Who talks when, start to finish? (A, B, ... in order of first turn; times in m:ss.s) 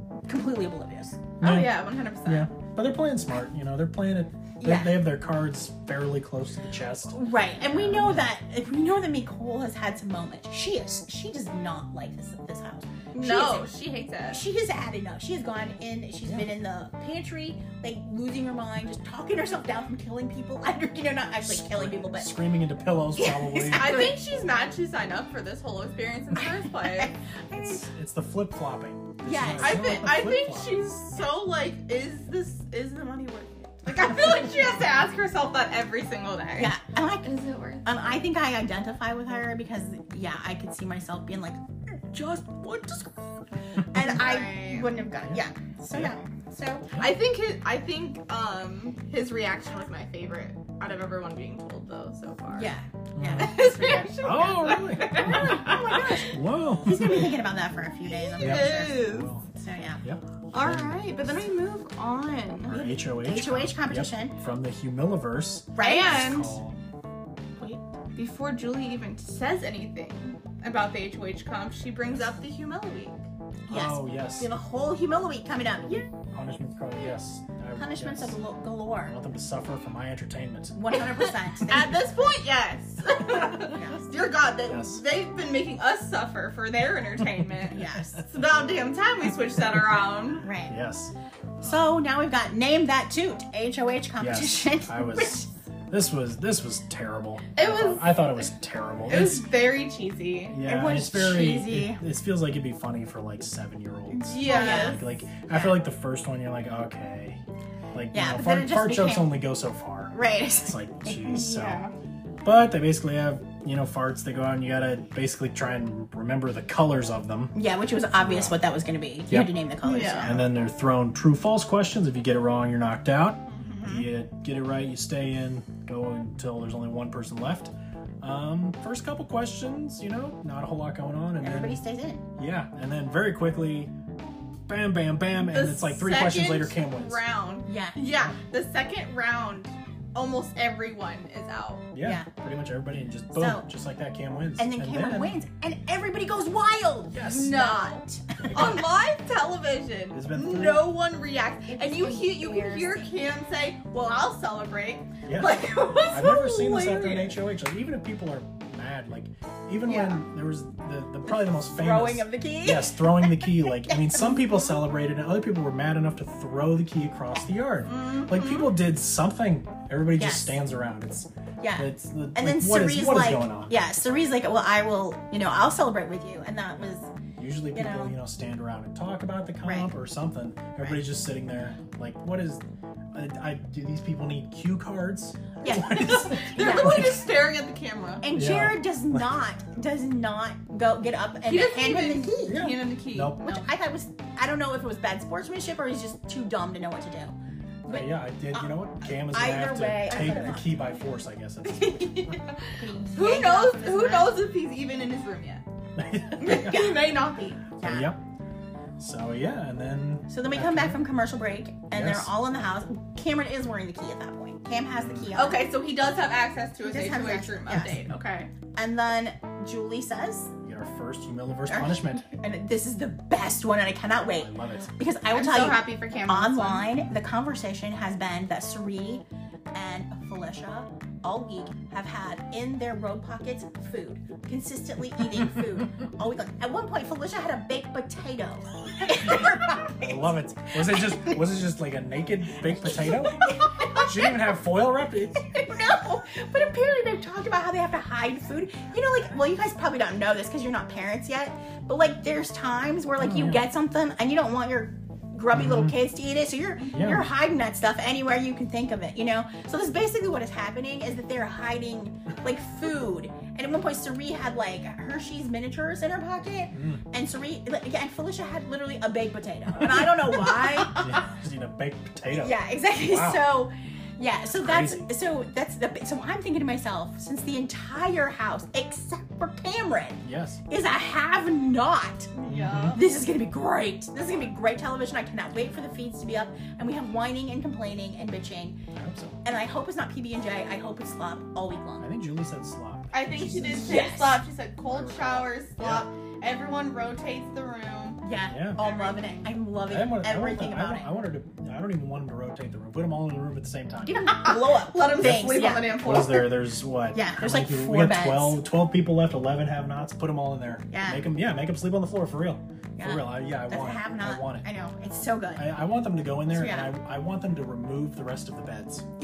0:00.3-0:01.2 A
0:01.4-0:02.5 B
0:01.4-0:08.3 C
0:04.6-0:05.0 A
0:07.1-0:13.7 A
0:13.1-0:14.4 B
0:14.3-0:22.3 A
0:21.4-0:24.1 C
0:23.2-0:24.2 A
0:23.7-0:27.2 B
0:26.4-0:27.8 A
0:27.5-0:30.9 C
0:29.2-0:30.1 A
0:29.6-0:37.9 B
0:36.6-0:37.3 A
0:37.8-0:46.9 A
0:44.0-0:44.9 B
0:45.2-0:46.2 C
0:47.0-0:52.7 B
0:52.5-0:54.5 A
0:53.2-0:53.6 C
0:53.4-0:56.4 B
0:54.2-0:57.3 C
0:55.1-1:00.0 A
0:58.1-0:59.3 B
0:58.4-0:59.5 C
1:00.0-1:01.0 C
1:00.5-1:02.8 B
1:02.7-1:06.8 C
1:02.7-1:04.3 A
1:05.8-1:06.4 A
1:05.8-1:06.6 B
1:08.2-1:13.2 B
1:13.7-1:16.1 A
1:13.7-1:14.6 C
1:15.9-1:18.4 C
1:17.8-1:19.2 A
1:19.1-1:20.9 C
1:20.8-1:22.0 A
1:21.6-1:30.4 B
1:23.6-1:24.1 A
1:24.7-1:25.0 C
1:27.4-1:28.7 C
1:27.7-1:28.2 A
1:29.7-1:30.0 C
1:30.4-1:30.8 A
1:30.7-1:31.9 C
1:31.6-1:35.5 A
1:34.2-1:39.5 C
1:37.6-1:38.4 B
1:39.1-1:40.6 B
1:40.5-1:47.4 C
1:40.6-1:42.0 A
1:44.1-1:45.1 B
1:44.4-1:45.8 A
1:47.9-1:51.8 C
1:48.1-1:49.3 A
1:50.1-1:51.3 A
1:51.2-1:51.9 B
1:52.4-1:57.5 C
1:57.6-2:00.4 A
1:58.2-1:58.6 C
1:59.8-2:00.4 B
2:00.2-2:11.8 C
2:03.5-2:03.8 B
2:03.8-2:04.0 A
2:11.4-2:12.2 A
2:12.4-2:13.9 C
2:14.7-2:17.2 C
2:15.4-2:21.9 B
2:17.7-2:18.0 A
2:21.9-2:25.4 C
2:22.0-2:22.3 A
2:23.4-2:23.7 A
2:24.6-2:28.8 A
2:27.1-2:27.6 C
2:27.2-2:37.4 B
2:28.4-2:28.8 C
2:30.1-2:30.9 C
2:31.7-2:33.2 A
2:35.2-2:53.7 C
2:39.9-2:40.2 A
2:41.2-2:44.8 A
2:47.9-2:48.7 B
2:50.2-2:50.6 A
2:51.6-2:57.1 A
2:56.8-3:07.3 C
2:57.7-2:58.2 A
2:59.6-2:59.9 A
3:05.6-3:07.1 A
3:05.8-3:08.3 B
3:08.2-3:12.7 A
3:08.3-3:09.2 C
3:11.5-3:13.7 B
3:12.5-3:13.4 C
3:13.4-3:17.4 A
3:17.9-3:20.7 A
3:17.9-3:22.4 C
3:20.1-3:20.8 B
3:21.7-3:25.6 B
3:22.7-3:24.4 A
3:26.0-3:26.9 C
3:26.4-3:27.7 B
3:26.5-3:27.0 A
3:27.8-3:28.1 A
3:27.8-3:28.2 C
3:29.0-3:31.0 C
3:30.3-3:35.7 A
3:31.9-3:32.3 C
3:35.0-3:35.3 C
3:35.4-3:38.5 B
3:36.9-3:38.0 A
3:38.7-3:40.5 A
3:40.6-3:42.3 C
3:41.7-4:01.4 A
3:44.3-3:44.9 C
3:45.3-3:46.9 B
3:59.1-4:05.5 C
4:02.8-4:04.4 A
4:05.4-4:31.2 A
4:13.2-4:13.7 C
4:15.5-4:16.0 C
4:16.9-4:17.3 C
4:26.7-4:27.0 C
4:29.8-4:33.5 C
4:32.3-4:42.3 A
4:34.5-4:35.1 C
4:40.2-4:40.6 C
4:42.3-4:43.2 B
4:42.4-4:43.0 C
4:42.9-4:48.8 A
4:48.9-4:49.4 C
4:49.4-4:52.1 A
4:52.0-4:54.1 C
4:53.1-4:58.2 B
4:53.8-4:54.4 A
4:54.8-4:56.1 C
4:58.2-5:01.1 A
4:58.5-4:58.8 C
4:58.8-4:59.5 B
4:59.9-5:04.3 C
5:04.0-5:06.2 A
5:04.2-5:06.5 B
5:05.2-5:14.7 C
5:07.1-5:08.6 A
5:10.9-5:11.2 A
5:13.0-5:15.7 A
5:15.6-5:19.0 C
5:16.5-5:16.9 A